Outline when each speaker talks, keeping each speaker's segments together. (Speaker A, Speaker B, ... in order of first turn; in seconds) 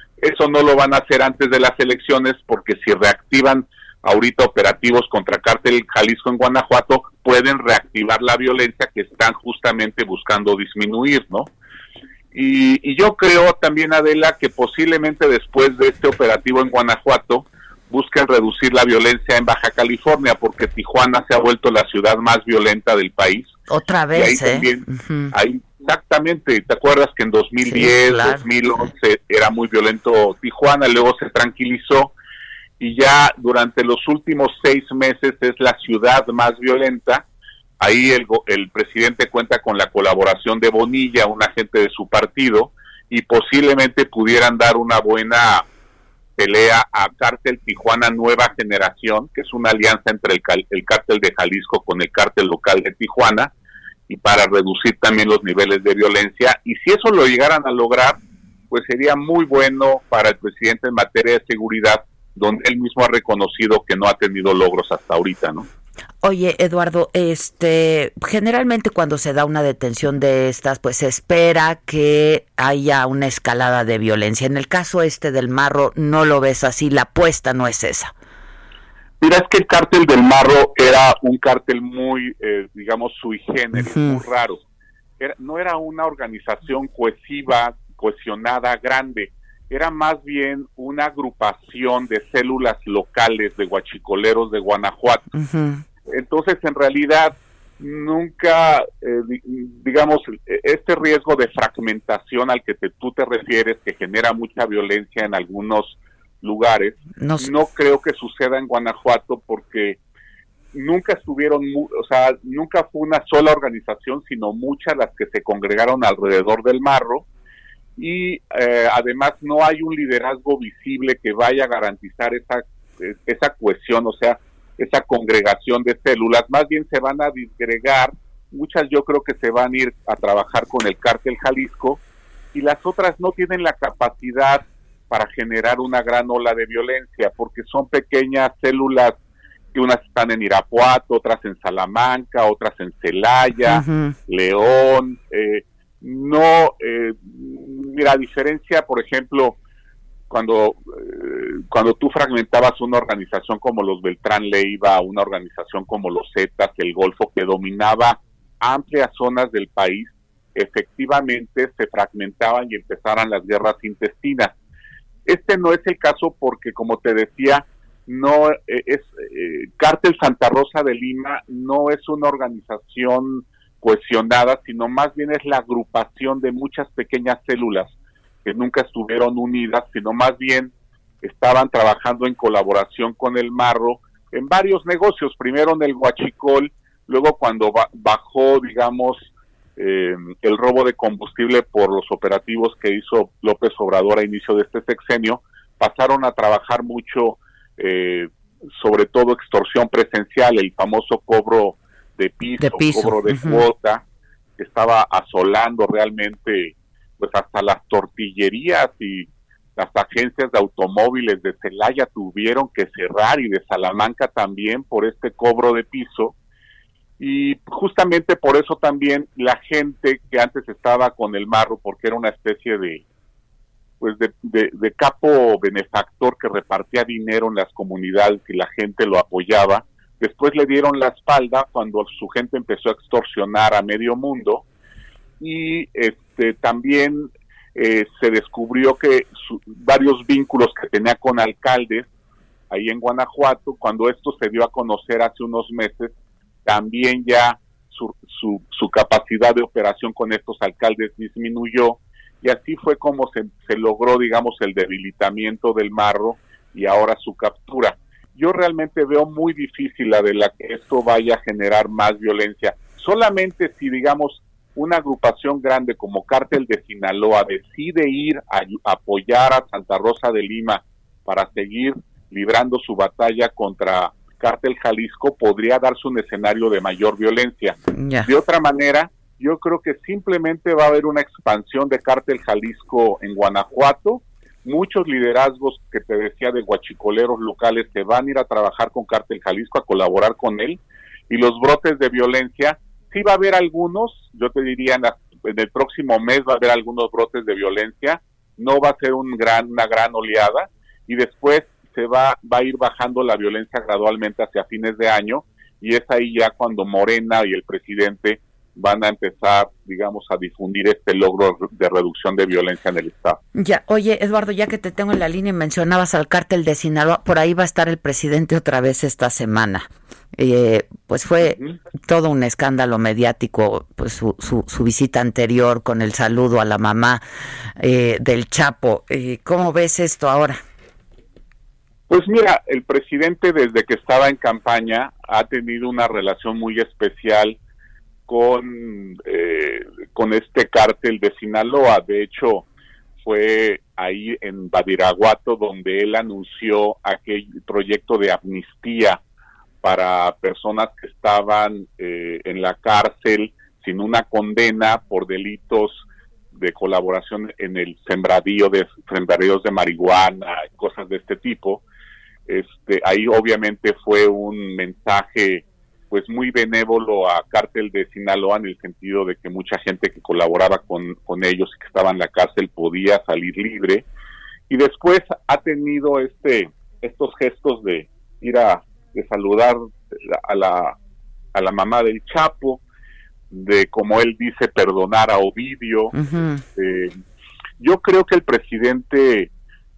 Speaker A: 0.2-11.5, 12.3-23.5, 24.1-32.1, 32.8-37.2, 37.8-45.6, 46.4-53.5, 54.1-58.2, 58.7-65.7, 79.2-84.6, 85.2-95.2, 96.1-110.0, 110.7-117.2, 118.0-132.0, 132.5-139.2, 139.7-149.6, 150.3-164.5, 165.3-177.9, 178.4-204.0, 204.6-216.3, 217.2-223.0, 224.0-234.6, 235.4-242.1, 242.7-246.1, 246.6-313.4, 332.1-337.6, 338.3-342.6, 343.2-349.2, 349.8-361.8, 362.5-374.0, 374.7-380.9, 381.5-382.8, 383.5-386.1, 386.8-387.1, 387.8-389.5
Speaker B: 23.7-25.3, 27.6-28.4, 66.2-78.1, 83.7-84.2, 95.3-95.8, 107.2-107.5, 143.6-144.2, 202.6-203.6, 277.9-278.3, 313.5-327.2, 327.8-330.6, 386.1-386.6